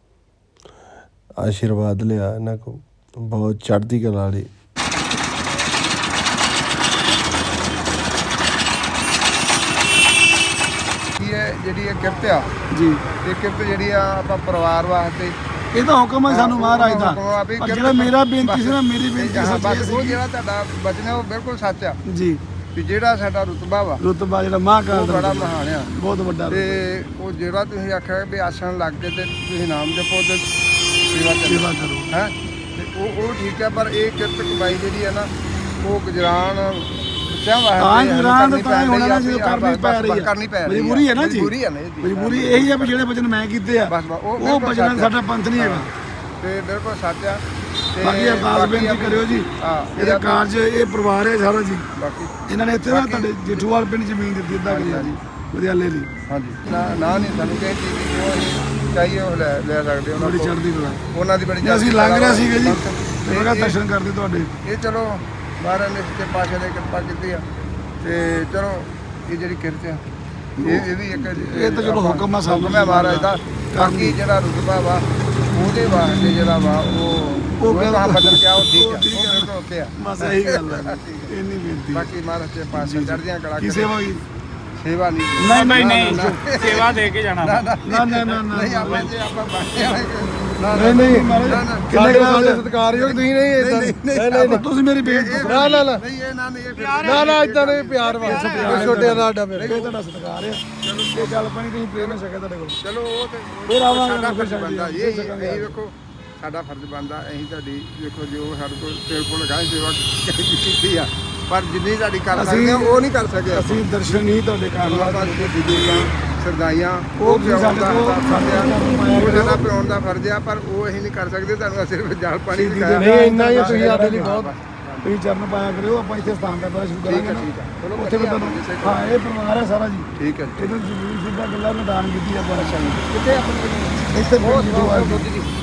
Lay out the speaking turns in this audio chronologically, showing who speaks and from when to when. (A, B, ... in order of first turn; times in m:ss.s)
0:01.4-0:04.5 A
0:11.2-0:12.5 B
0:12.7-0:13.0 C
0:13.2-0:15.4 B
0:15.7-0:20.2 C
0:16.3-0:22.0 B
0:22.1-0:22.4 C
0:22.7-0:24.0 B
0:24.0-0:26.8 C
0:24.9-0:25.9 B
0:26.5-0:30.5 B
0:31.0-0:43.1 B
0:31.5-0:32.1 C
0:37.8-0:45.9 C
0:43.9-0:45.9 B
0:46.4-0:47.4 B
0:47.9-0:50.4 B
0:48.0-0:51.8 C
0:52.0-0:53.7 B
0:52.5-0:56.1 C
0:54.7-0:55.2 B
0:56.3-1:00.6 B
1:00.2-1:01.0 C
1:01.1-1:03.8 B
1:01.6-1:04.5 C
1:04.6-1:07.4 B
1:08.0-1:10.0 B
1:10.6-1:14.2 C
1:10.6-1:21.3 B
1:17.6-1:22.1 C
1:21.9-1:24.0 B
1:22.7-1:24.2 C
1:24.8-1:32.2 B
1:25.4-1:26.4 C
1:27.8-1:29.1 C
1:30.6-1:32.6 C
1:30.7-1:34.7 A
1:32.8-1:39.9 B
1:34.3-1:35.8 C
1:35.4-1:36.0 A
1:37.0-1:39.8 A
1:38.2-1:42.8 C
1:40.8-1:42.2 B
1:42.8-1:54.2 B
1:43.7-1:45.8 C
1:52.3-1:55.6 C
1:54.8-2:05.1 B
1:57.2-1:59.7 C
2:02.5-2:04.4 C
2:03.0-2:04.5 A
2:05.0-2:13.1 C
2:07.0-2:09.1 B
2:10.2-2:10.6 B
2:12.7-2:14.5 B
2:14.1-2:15.3 C